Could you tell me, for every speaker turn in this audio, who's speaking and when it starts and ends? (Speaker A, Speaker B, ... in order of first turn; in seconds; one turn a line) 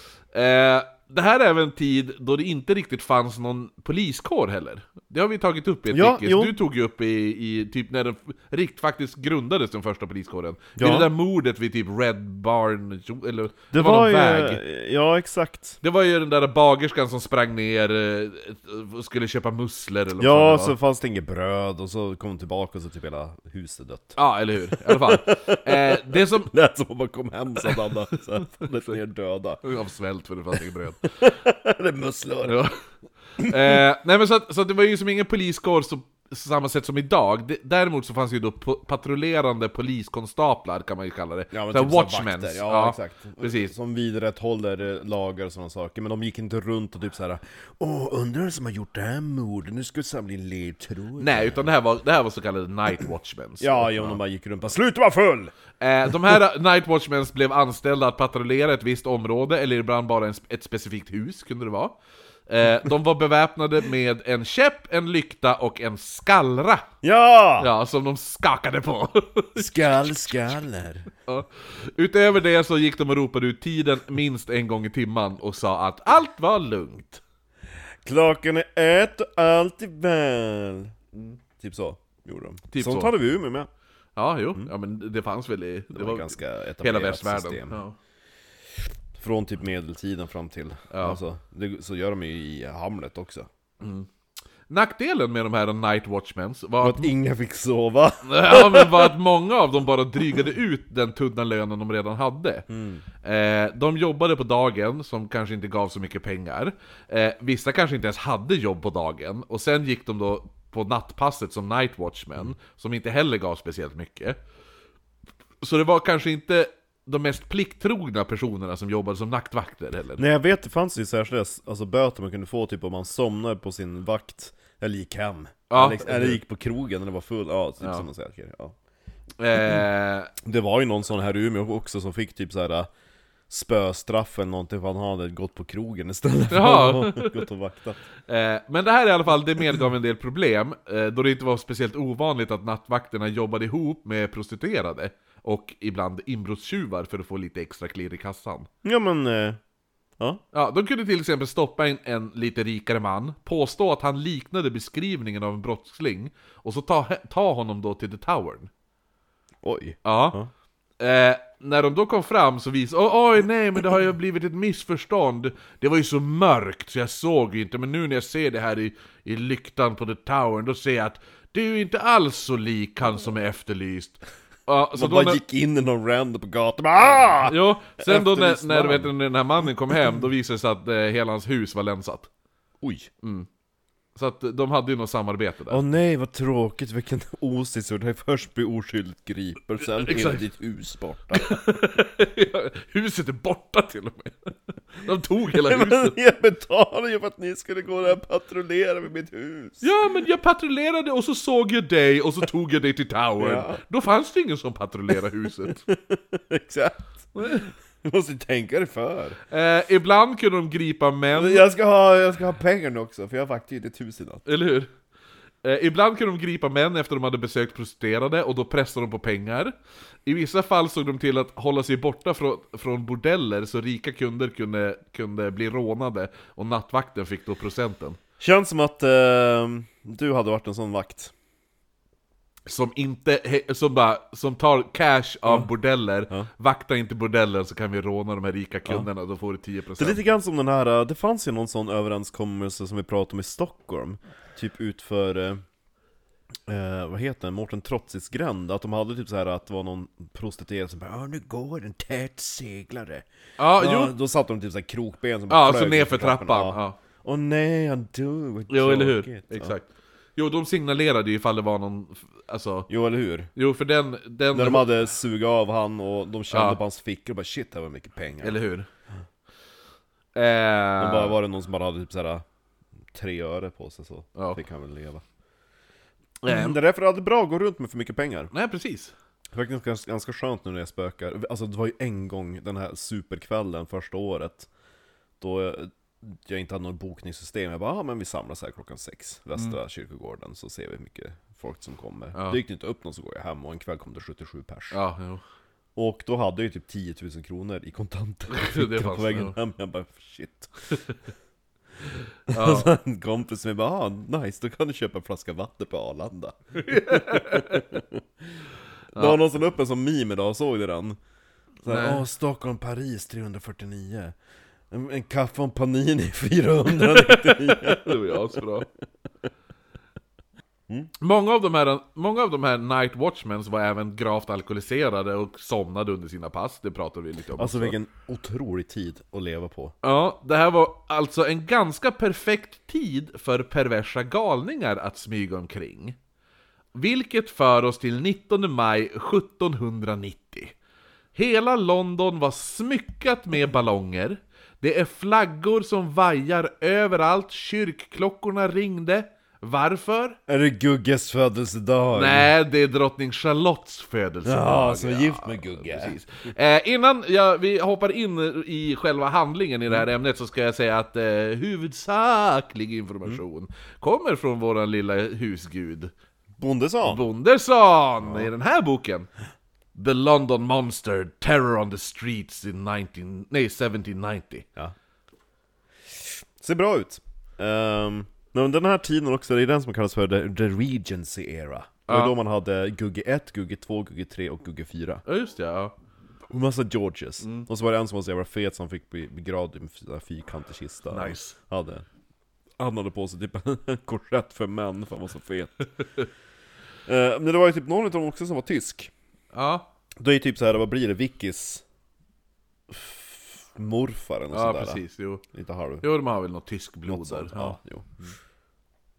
Speaker A: 0.3-14.6
Speaker B: 5.9-6.5
Speaker B: 10.8-11.1
Speaker B: 13.7-15.8
Speaker A: 15.8-20.8
Speaker B: 20.2-24.1
Speaker A: 24.1-26.5
Speaker B: 24.7-29.6
Speaker A: 29.6-31.1
Speaker B: 31.0-32.6
Speaker A: 32.4-32.7
Speaker A: 33.4-43.7
Speaker B: 33.4-33.8
Speaker B: 41.5-51.7
Speaker A: 51.2-54.2
Speaker B: 53.6-55.5
Speaker A: 55.8-66.8
Speaker B: 56.0-56.3
Speaker B: 67.0-67.7
Speaker A: 67.6-70.5
Speaker B: 69.6-71.1
Speaker A: 71.2-77.2
Speaker B: 78.0-80.9
Speaker B: 81.6-83.7
Speaker A: 82.7-83.1
Speaker A: 84.2-88.0
Speaker B: 85.9-87.8
Speaker B: 89.1-93.5
Speaker A: 90.9-91.2
Speaker A: 93.8-94.1
Speaker A: 94.7-97.1
Speaker B: 96.8-99.1
Speaker A: 98.2-102.7
Speaker B: 102.7-103.0
Speaker A: 103.2-114.4
Speaker A: 115.6-120.2
Speaker B: 120.2-128.7
Speaker A: 125.7-126.4
Speaker A: 127.8-128.1
Speaker A: 129.4-130.3
Speaker B: 130.4-132.9
Speaker B: 133.5-138.0
Speaker A: 136.5-137.4
Speaker A: 138.3-148.7
Speaker B: 148.8-149.6
Speaker A: 150.5-158.7
Speaker B: 159.6-160.5
Speaker A: 160.0-160.3
Speaker A: 161.0-175.4
Speaker B: 174.9-179.1
Speaker A: 177.4-182.3
Speaker B: 179.9-180.2
Speaker B: 182.8-183.1
Speaker A: 183.2-183.5
Speaker A: 184.2-185.8
Speaker B: 185.7-191.5
Speaker A: 189.8-190.4
Speaker A: 191.3-196.2
Speaker B: 195.5-199.9
Speaker A: 199.8-205.8
Speaker B: 203.4-203.8
Speaker B: 205.8-209.4
Speaker A: 207.3-207.7
Speaker A: 209.5-211.7
Speaker B: 211.3-214.4
Speaker A: 214.4-214.9
Speaker A: 215.6-219.7
Speaker A: 220.2-228.2
Speaker B: 228.4-231.3
Speaker A: 232.7-240.2
Speaker B: 240.0-245.6
Speaker B: 246.7-253.2
Speaker A: 253.6-254.1
Speaker B: 253.8-259.7
Speaker A: 255.5-257.0
Speaker A: 258.7-262.9
Speaker B: 262.9-263.5
Speaker A: 263.6-264.9
Speaker B: 264.5-268.6
Speaker A: 266.5-266.8
Speaker A: 268.4-268.9
Speaker A: 270.3-271.4
Speaker B: 271.0-272.4
Speaker B: 273.1-275.2
Speaker A: 276.4-276.8
Speaker B: 276.5-278.5
Speaker A: 278.5-279.1
Speaker B: 279.5-284.7
Speaker B: 285.4-294.9
Speaker A: 292.3-292.6
Speaker A: 294.9-295.4
Speaker B: 295.9-301.0
Speaker A: 298.5-299.6
Speaker A: 300.9-301.2
Speaker B: 302.5-308.2
Speaker A: 302.5-302.9
Speaker A: 306.7-307.9
Speaker A: 309.1-309.4
Speaker B: 309.1-311.2
Speaker A: 311.8-312.2
Speaker B: 311.8-314.3
Speaker B: 314.9-318.3
Speaker A: 317.2-318.9
Speaker A: 321.2-327.9
Speaker B: 327.6-329.9
Speaker A: 330.0-336.2
Speaker A: 336.9-340.7
Speaker A: 341.3-350.4
Speaker B: 350.5-352.5
Speaker A: 352.1-366.1
Speaker B: 354.4-356.2
Speaker B: 366.6-367.2
Speaker A: 367.0-369.3
Speaker B: 368.2-368.5
Speaker A: 369.9-374.6
Speaker B: 376.6-385.2
Speaker A: 382.1-382.3
Speaker A: 385.2-385.9
Speaker B: 386.5-392.0
Speaker A: 387.4-387.7
Speaker A: 391.1-391.6
Speaker B: 392.8-395.9
Speaker B: 397.1-399.1
Speaker A: 399.5-399.9
Speaker B: 400.2-401.8
Speaker B: 402.9-405.0
Speaker A: 404.5-405.4
Speaker B: 405.5-406.0
Speaker A: 406.0-407.8
Speaker B: 407.1-408.1